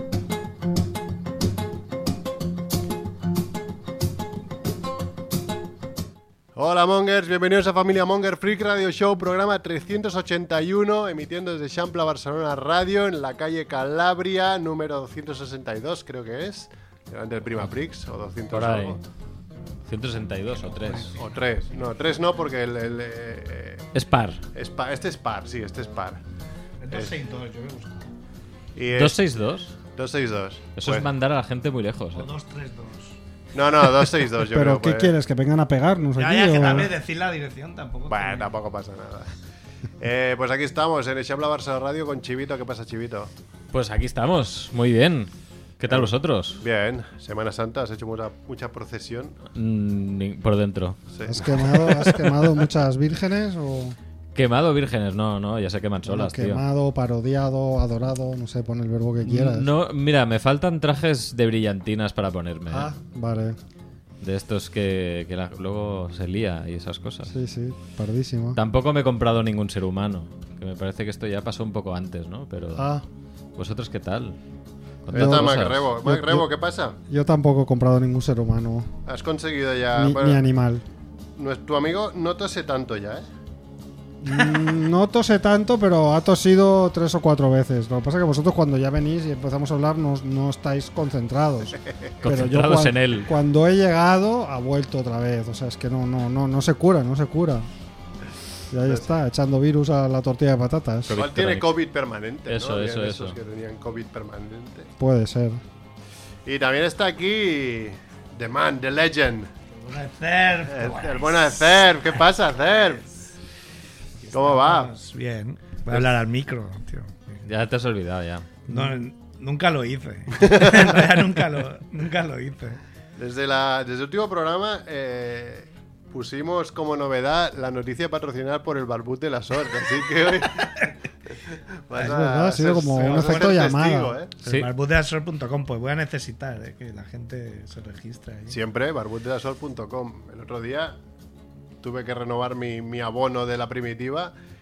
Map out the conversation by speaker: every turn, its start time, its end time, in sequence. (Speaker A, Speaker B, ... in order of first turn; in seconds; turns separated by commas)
Speaker A: 6.5-19.0, Speaker B: 18.5-19.0, Speaker B: 19.9-21.1, Speaker C: 20.8-21.2, Speaker A: 21.1-23.9, Speaker B: 23.9-24.4, Speaker A: 24.5-26.2, Speaker C: 26.8-28.1, Speaker A: 28.7-29.2, Speaker B: 28.9-29.7, Speaker A: 29.9-31.1, Speaker B: 30.8-32.3, Speaker C: 32.1-33.2, Speaker A: 33.5-35.1, Speaker D: 34.4-36.9, Speaker C: 36.2-38.5, Speaker A: 38.1-39.3, Speaker A: 40.0-43.3, Speaker B: 43.7-46.6, Speaker A: 45.9-49.4, Speaker B: 49.5-51.0, Speaker A: 51.1-52.2, Speaker D: 51.2-54.0, Speaker B: 54.3-56.6, Speaker D: 56.0-59.7, Speaker B: 59.2-62.9, Speaker D: 62.7-63.6, Speaker B: 64.2-67.3, Speaker D: 67.3-68.6, Speaker B: 68.5-72.9, Speaker D: 72.8-73.0, Speaker B: 73.5-74.4, Speaker B: 75.0-75.8, Speaker A: 75.1-77.0, Speaker D: 75.1-76.5, Speaker D: 77.1-78.9, Speaker A: 79.0-80.4, Speaker D: 79.9-80.8, Speaker A: 81.3-83.3, Speaker D: 84.2-97.7, Speaker B: 92.2-93.3, Speaker D: 98.7-101.2, Speaker B: 101.1-101.8, Speaker A: 101.1-104.9, Speaker B: 102.5-103.4, Speaker D: 105.0-105.6, Speaker A: 106.4-109.5, Speaker C: 109.7-111.7, Speaker A: 110.7-113.0, Speaker C: 114.2-117.4, Speaker A: 114.3-114.9, Speaker B: 117.4-118.5, Speaker C: 118.7-122.8, Speaker A: 120.3-121.1, Speaker A: 123.2-130.9, Speaker A: 131.5-134.3, Speaker D: 131.9-134.1, Speaker C: 133.0-133.6, Speaker C: 134.4-138.6, Speaker A: 138.5-141.0, Speaker A: 141.8-144.3